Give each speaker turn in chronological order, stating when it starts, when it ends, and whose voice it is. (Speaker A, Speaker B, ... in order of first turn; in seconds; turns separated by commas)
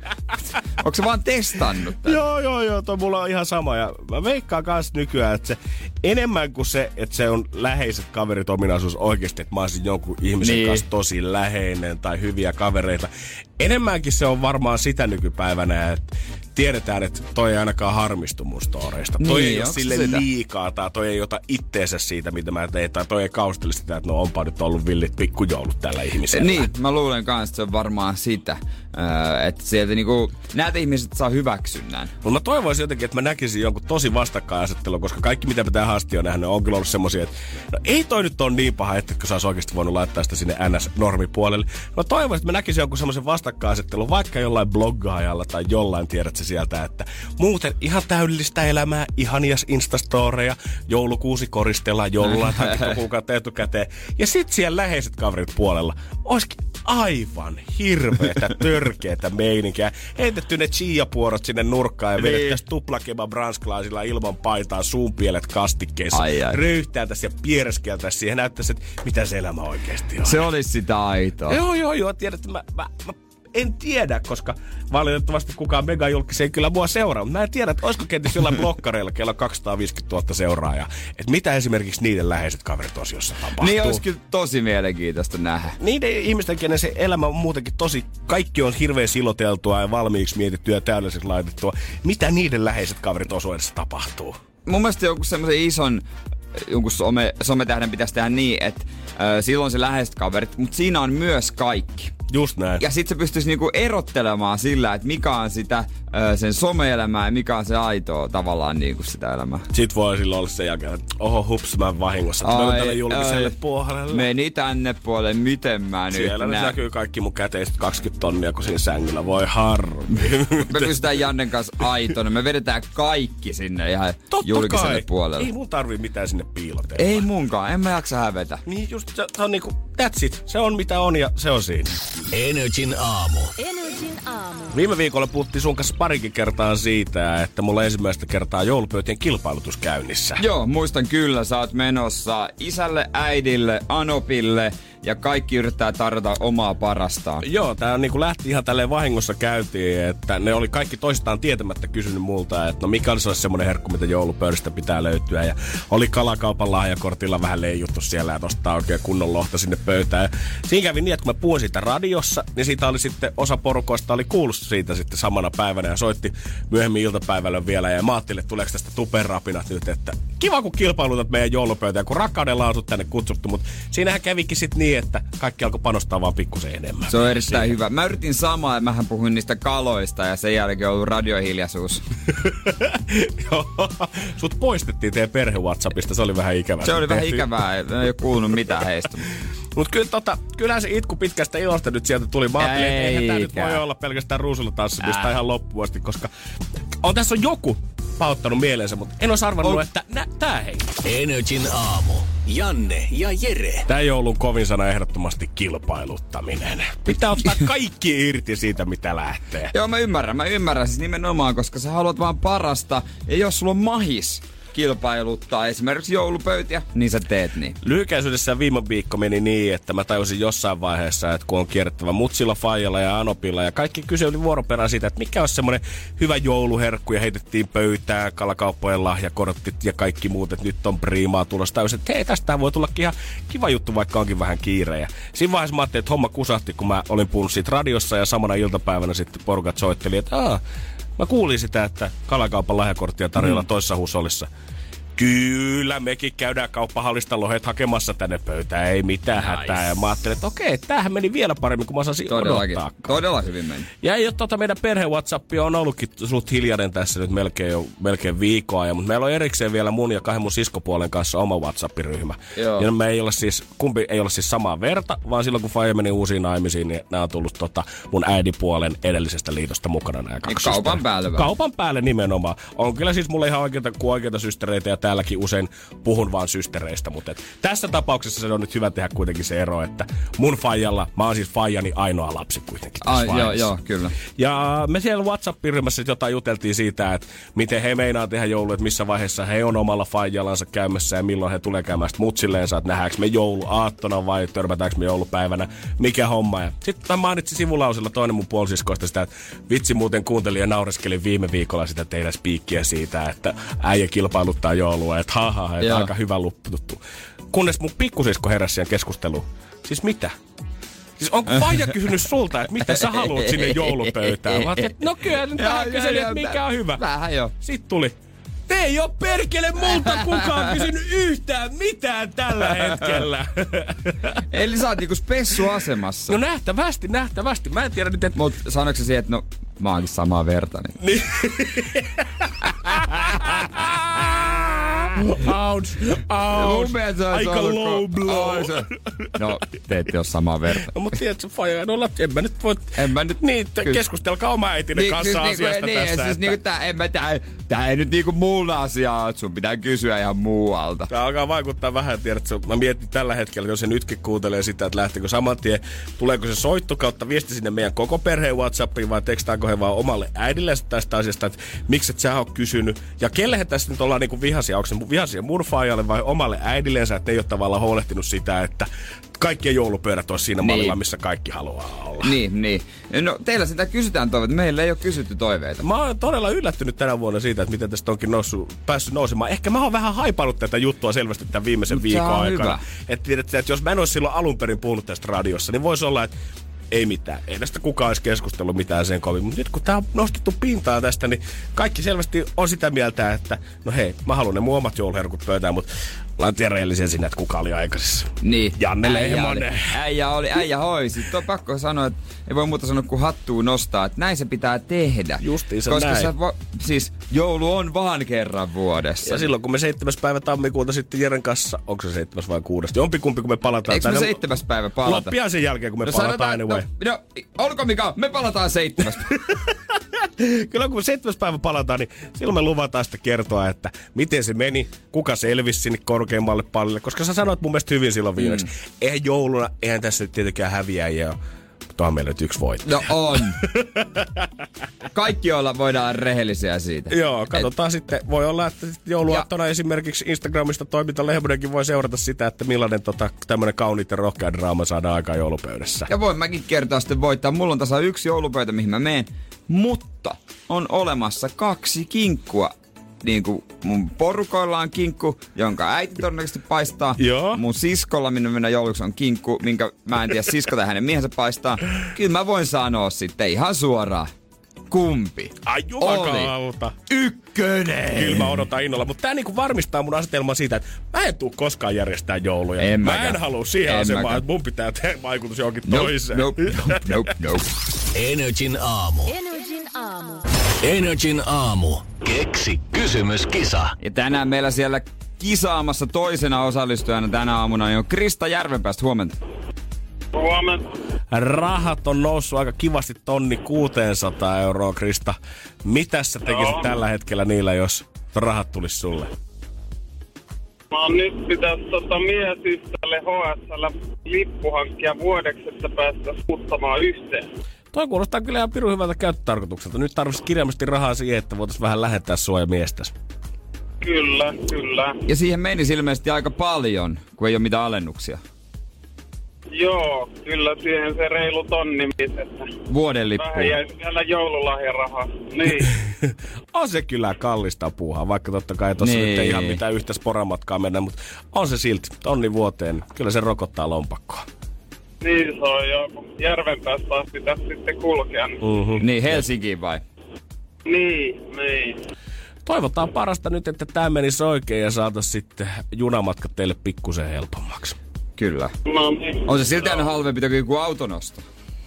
Speaker A: 0.8-2.2, Speaker B: 2.0-26.7, Speaker A: 10.4-10.8, Speaker A: 19.2-20.2, Speaker A: 26.3-32.1, Speaker B: 32.2-70.4, Speaker A: 52.2-53.0, Speaker A: 62.2-62.6, Speaker A: 66.1-66.6, Speaker A: 70.2-71.6, Speaker B: 71.5-84.0, Speaker A: 83.6-85.8, Speaker B: 85.8-94.4, Speaker A: 94.7-102.1, Speaker B: 102.3-102.8, Speaker A: 102.8-109.7, Speaker B: 109.7-114.3, Speaker A: 112.4-113.5, Speaker A: 114.1-116.8, Speaker B: 116.1-121.1, Speaker A: 120.1-125.5, Speaker B: 124.3-127.3, Speaker A: 127.0-128.6, Speaker B: 128.6-131.9, Speaker C: 132.3-133.5, Speaker D: 133.6-134.8, Speaker B: 134.7-140.4, Speaker A: 140.4-147.4, Speaker B: 147.4-177.7, Speaker A: 177.1-182.0, Speaker B: 182.4-187.5, Speaker A: 186.8-189.3, Speaker B: 189.7-196.3, Speaker A: 192.6-193.8, Speaker A: 195.0-195.3, Speaker B: 197.0-200.9, Speaker C: 201.0-203.9, Speaker B: 203.9-209.7, Speaker A: 209.7-217.8, Speaker B: 217.8-240.6, Speaker B: 241.2-244.5, Speaker B: 245.2-253.2, Speaker A: 249.4-249.9, Speaker A: 252.3-253.9, Speaker B: 254.0-283.7, Speaker A: 262.6-262.9, Speaker A: 270.4-271.5, Speaker A: 283.0-284.2, Speaker B: 284.3-310.4, Speaker A: 305.8-306.1, Speaker B: 311.2-317.0, Speaker A: 312.9-314.9, Speaker A: 315.5-317.5, Speaker B: 317.6-318.1, Speaker B: 318.7-324.4, Speaker A: 320.1-320.8, Speaker A: 322.6-323.2, Speaker A: 324.5-326.4, Speaker B: 326.3-328.4, Speaker A: 328.3-330.9, Speaker B: 331.0-339.4, Speaker A: 336.5-340.9, Speaker B: 340.8-346.6, Speaker A: 342.9-344.0, Speaker A: 344.9-351.1, Speaker B: 351.1-372.4, Speaker A: 370.6-371.0, Speaker A: 372.2-375.8, Speaker B: 375.8-386.3, Speaker A: 381.9-382.8, Speaker B: 386.9-399.9, Speaker A: 398.4-409.4, Speaker B: 405.4-406.3, Speaker B: 409.2-414.4, Speaker A: 413.9-415.4, Speaker B: 415.0-416.9, Speaker A: 416.0-419.4, Speaker B: 419.3-431.4, Speaker A: 428.4-428.7, Speaker B: 431.9-434.5, Speaker A: 432.8-433.6, Speaker A: 435.1-437.7, Speaker B: 437.1-446.1, Speaker A: 446.1-464.3, Speaker B: 457.2-457.6, Speaker A: 464.9-466.5, Speaker B: 465.6-467.0, Speaker A: 467.1-468.6, Speaker B: 468.1-477.3, Speaker A: 472.8-474.4, Speaker A: 475.9-477.6, Speaker C: 478.1-479.3, Speaker D: 479.3-480.5, Speaker C: 480.8-483.9, Speaker A: 484.0-489.4, Speaker E: 490.3-490.9, Speaker B: 491.3-499.3, Speaker E: 496.5-496.9, Speaker E: 500.9-507.5, Speaker B: 507.9-513.1, Speaker E: 514.0-515.2, Speaker A: 515.2-518.4, Speaker E: 519.7-522.7, Speaker A: 522.9-523.8, Speaker E: 523.4-525.9, Speaker B: 525.8-534.5, Speaker A: 529.0-529.8, Speaker E: 535.2-538.6, Speaker B: 538.6-539.4, Speaker A: 539.0-540.0, Speaker E: 540.8-542.0, Speaker B: 542.6-548.0, Speaker A: 548.4-548.7, Speaker E: 548.9-549.8, Speaker A: 549.5-551.5